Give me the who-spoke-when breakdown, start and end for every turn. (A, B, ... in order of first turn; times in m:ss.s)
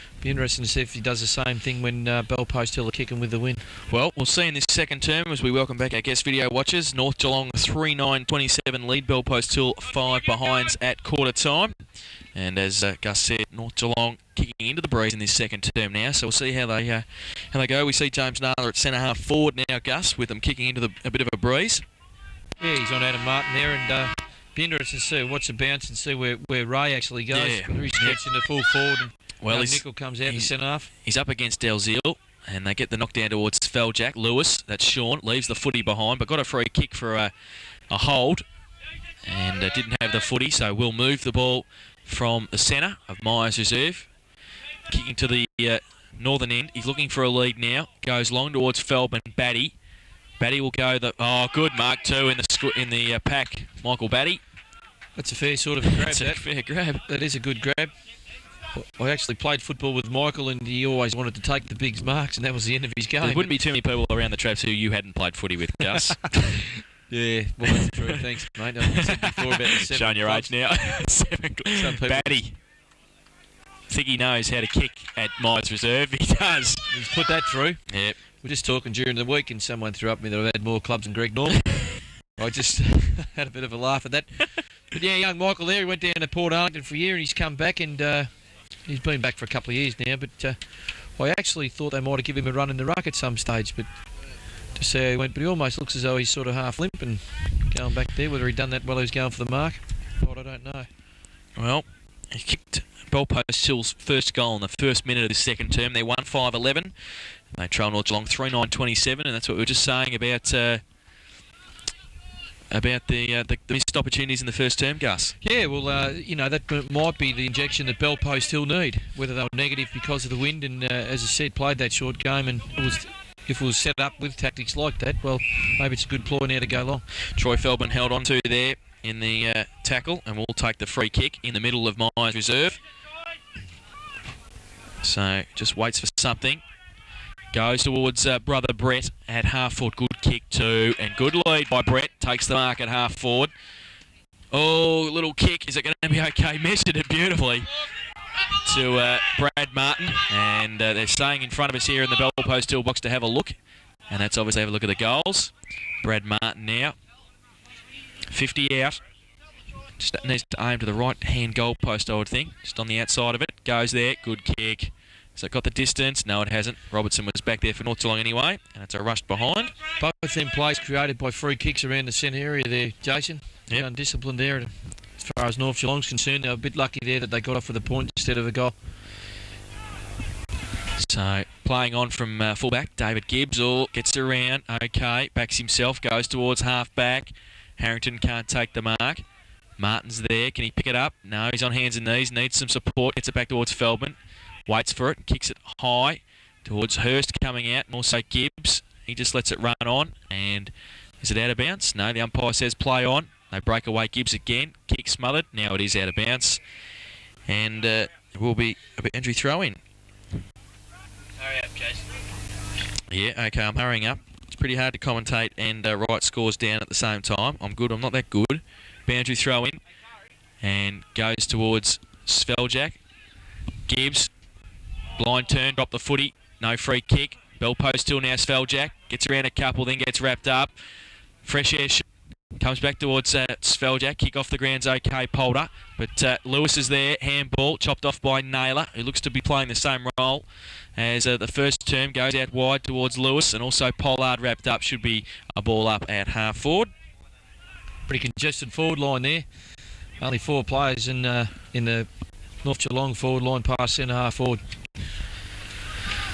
0:00.2-0:03.7 A
0:03.9-0:11.8 B
0:12.3-0:21.8 B
0:22.6-0:30.9 A
0:27.3-0:28.2 B
0:29.4-0:37.3 B
0:37.9-0:38.4 B
0:39.2-0:44.1 B
0:44.9-0:49.8 B
0:50.4-0:54.4 B
0:55.2-0:56.4 A
0:55.8-0:57.0 B
0:57.1-0:57.9 A
0:58.7-1:03.5 A
1:03.2-1:06.6 B
1:05.9-1:10.5 A
1:07.6-1:12.6 B
1:11.7-1:12.4 A
1:13.9-1:16.9 B
1:16.9-1:17.8 A
1:17.9-1:18.2 B
1:18.4-1:28.3 A
1:28.9-1:30.6 A
1:31.2-1:33.9 A
1:34.8-1:40.9 A
1:41.6-1:46.9 B
1:47.5-1:50.8 B
1:52.7-1:55.4 B
1:55.4-2:07.0 A
2:07.4-2:12.8 B
2:15.0-2:16.6 B
2:17.5-2:23.5 B
2:24.5-2:27.7 B
2:28.6-2:33.5 B
2:34.1-2:37.0 B
2:38.3-2:39.0 B
2:40.0-2:49.7 B
2:50.0-2:58.8 A
3:01.0-3:09.2 B
3:09.8-3:26.6 B
3:27.5-3:29.8 B
3:31.5-3:31.9 B
3:33.1-3:39.8 B
3:40.6-3:43.0 B
3:43.9-3:44.3 B
3:45.2-3:50.7 B
3:51.4-4:06.9 B
4:08.1-4:09.5 A
4:10.2-4:12.1 A
4:12.6-4:14.6 A